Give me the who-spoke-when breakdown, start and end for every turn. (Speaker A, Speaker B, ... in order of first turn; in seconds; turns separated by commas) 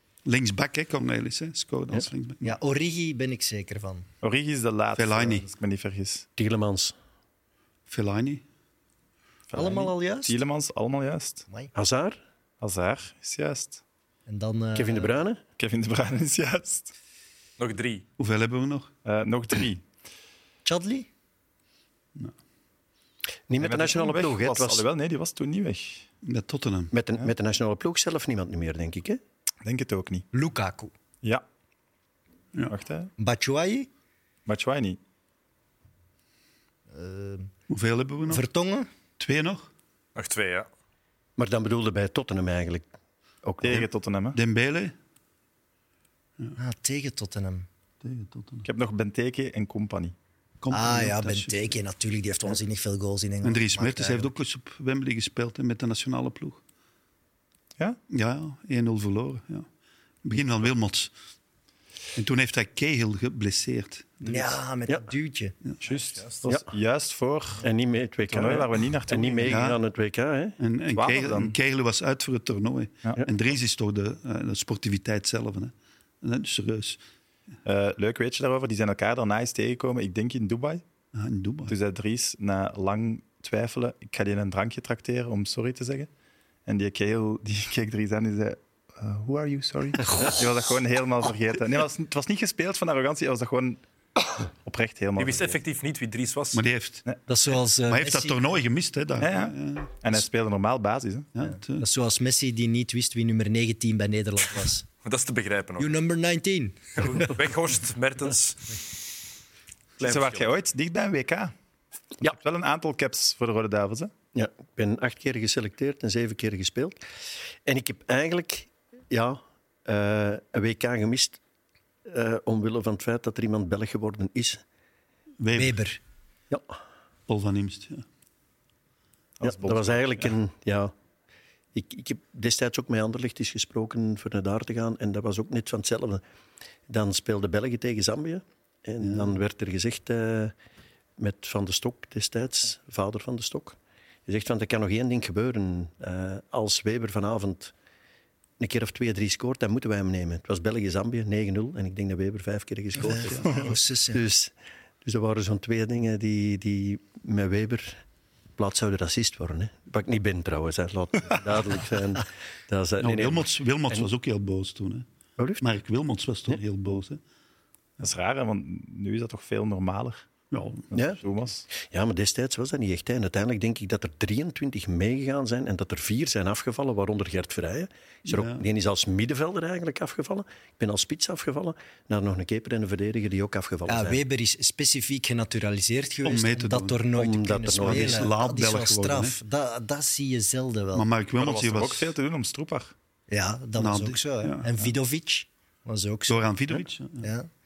Speaker A: 0.2-2.5, Speaker B: 2.4-4.1, Speaker C: 4.2-6.2, Speaker A: 5.0-5.4, Speaker D: 6.4-6.9, Speaker A: 7.9-8.4, Speaker C: 9.5-11.4, Speaker B: 9.5-10.3, Speaker D: 11.7-12.2, Speaker C: 12.6-13.8, Speaker B: 14.3-15.1, Speaker D: 14.7-15.4, Speaker C: 15.6-16.9, Speaker E: 17.6-18.0, Speaker A: 18.2-18.9, Speaker C: 19.0-19.8, Speaker B: 20.6-21.1, Speaker D: 23.5-24.9, Speaker C: 23.6-26.1, Speaker A: 26.2-26.9, Speaker D: 26.9-29.2, Speaker C: 29.6-30.3, Speaker B: 30.3-30.9, Speaker C: 32.7-33.1, Speaker B: 33.2-33.9, Speaker C: 34.5-35.0, Speaker B: 36.9-37.5, Speaker A: 37.7-38.4, Speaker B: 38.3-38.9, Speaker A: 39.2-39.7, Speaker E: 40.1-40.7, Speaker D: 41.4-42.9, Speaker D: 43.4-43.9, Speaker C: 43.6-44.4, Speaker A: 44.3-44.9, Speaker B: 46.6-47.6, Speaker A: 48.0-48.6, Speaker C: 48.6-50.1, Speaker A: 50.6-51.7, Speaker B: 50.7-54.3, Speaker A: 53.4-56.6, Speaker A: 58.1-59.6, Speaker A: 60.2-61.1, Speaker A: 62.1-64.5, Speaker B: 64.2-65.5, Speaker C: 65.8-67.6, Speaker D: 67.6-70.6, Speaker C: 68.3-69.7, Speaker A: 69.5-69.8, Speaker A: 70.6-77.0, Speaker C: 70.9-71.5, Speaker C: 77.6-80.8, Speaker A: 81.1-81.7, Speaker C: 81.7-86.1, Speaker C: 86.7-93.8, Speaker C: 94.6-95.6, Speaker E: 95.2-96.6, Speaker A: 96.5-97.0, Speaker B: 97.3-98.5, Speaker A: 97.9-99.9, Speaker C: 99.2-101.3, Speaker A: 101.3-101.8, Speaker B: 101.5-104.8, Speaker E: 105.0-105.9, Speaker B: 105.8-107.3, Speaker E: 107.0-108.8, Speaker E: 110.0-110.5, Speaker C: 110.0-111.5, Speaker C: 112.2-114.1, Speaker D: 114.3-117.0, Speaker D: 117.6-121.4, Speaker D: 122.0-124.6, Speaker A: 125.4-125.8, Speaker B: 125.5-126.0, Speaker A: 127.3-128.0, Speaker C: 129.4-130.3, Speaker D: 129.4-130.9, Speaker D: 131.7-136.2, Speaker D: 136.9-140.5, Speaker D: 141.2-147.7, Speaker D: 148.6-154.5, Speaker B: 153.0-154.2, Speaker A: 153.1-153.6, Speaker D: 155.0-158.0, Speaker D: 158.6-164.1, Speaker A: 163.0-165.1, Speaker D: 165.4-165.6, Speaker A: 165.6-167.2, Speaker C: 168.0-170.3, Speaker A: 170.5-170.9, Speaker C: 170.9-171.7, Speaker D: 170.9-171.2, Speaker D: 171.7-184.2, Speaker A: 178.3-178.6, Speaker B: 183.9-191.1, Speaker A: 186.2-187.0, Speaker D: 187.1-188.3, Speaker A: 187.7-189.4, Speaker A: 190.9-192.1, Speaker C: 191.4-192.9, Speaker B: 193.3-197.5, Speaker A: 193.8-194.7, Speaker A: 196.3-197.3